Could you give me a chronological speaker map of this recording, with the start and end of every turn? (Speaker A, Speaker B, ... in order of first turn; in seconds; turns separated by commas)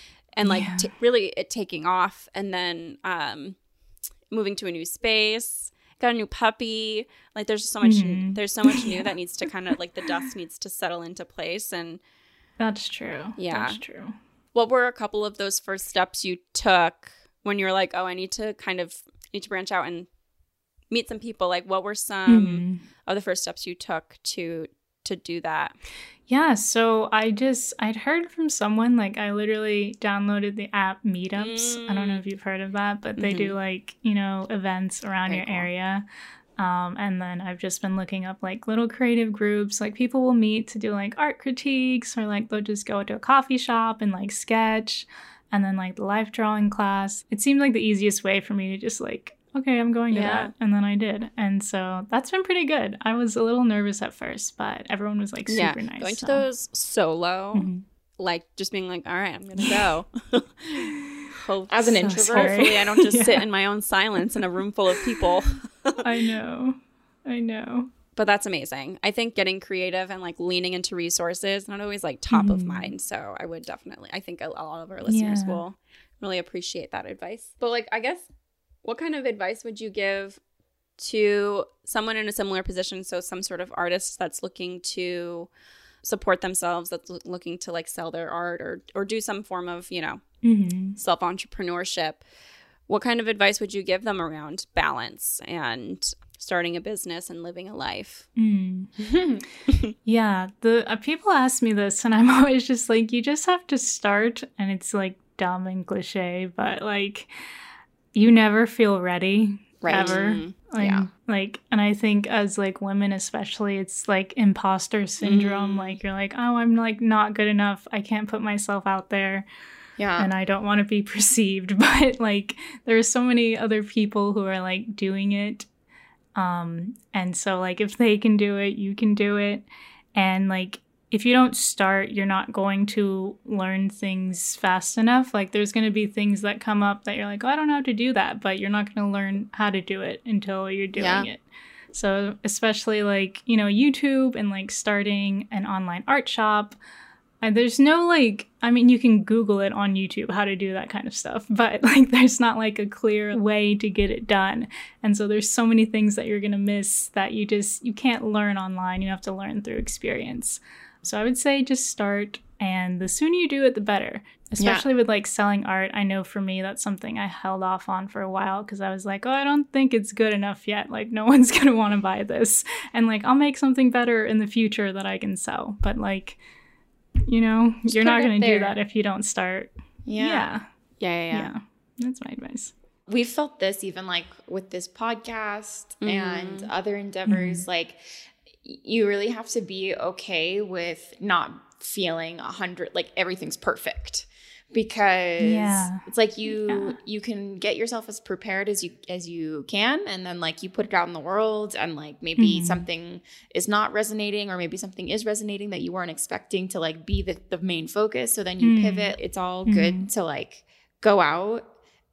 Speaker A: 0.3-3.6, Speaker B: 0.4-0.9, Speaker A: 4.3-12.0, Speaker B: 7.8-9.1, Speaker B: 12.6-14.2, Speaker A: 13.4-13.8, Speaker A: 14.6-20.1, Speaker A: 20.9-25.8, Speaker B: 22.3-22.8, Speaker B: 26.3-36.0, Speaker A: 31.4-32.2, Speaker A: 33.2-33.5, Speaker C: 35.3-35.7, Speaker B: 36.6-56.4, Speaker A: 50.1-50.5, Speaker A: 55.5-57.7, Speaker B: 57.5-57.8, Speaker A: 58.2-66.1, Speaker C: 61.7-62.7, Speaker B: 62.0-63.4, Speaker B: 66.0-67.9, Speaker A: 68.2-78.3, Speaker B: 72.3-72.9, Speaker B: 75.1-75.6, Speaker A: 78.8-80.4, Speaker A: 81.0-85.5, Speaker A: 86.0-90.2, Speaker B: 90.4-91.0, Speaker A: 91.0-92.2, Speaker A: 92.9-98.3, Speaker B: 98.4-98.9, Speaker C: 99.0-99.4, Speaker B: 100.0-107.3, Speaker B: 108.1-119.5, Speaker C: 109.8-110.2, Speaker A: 109.9-110.5, Speaker C: 110.8-111.1, Speaker A: 115.2-116.0, Speaker C: 120.0-120.3, Speaker B: 120.2-125.7, Speaker B: 126.3-146.8, Speaker A: 140.9-141.3, Speaker B: 147.4-176.4, Speaker C: 164.6-164.8, Speaker B: 177.3-180.7, Speaker A: 177.9-178.8, Speaker C: 180.1-180.5, Speaker A: 181.0-181.5, Speaker B: 181.3-182.7, Speaker C: 183.1-188.0, Speaker A: 186.0-186.7, Speaker B: 187.3-187.7, Speaker C: 188.6-211.7, Speaker B: 195.4-196.1, Speaker B: 196.7-197.0, Speaker B: 202.4-202.9, Speaker B: 208.6-209.2, Speaker B: 209.7-210.1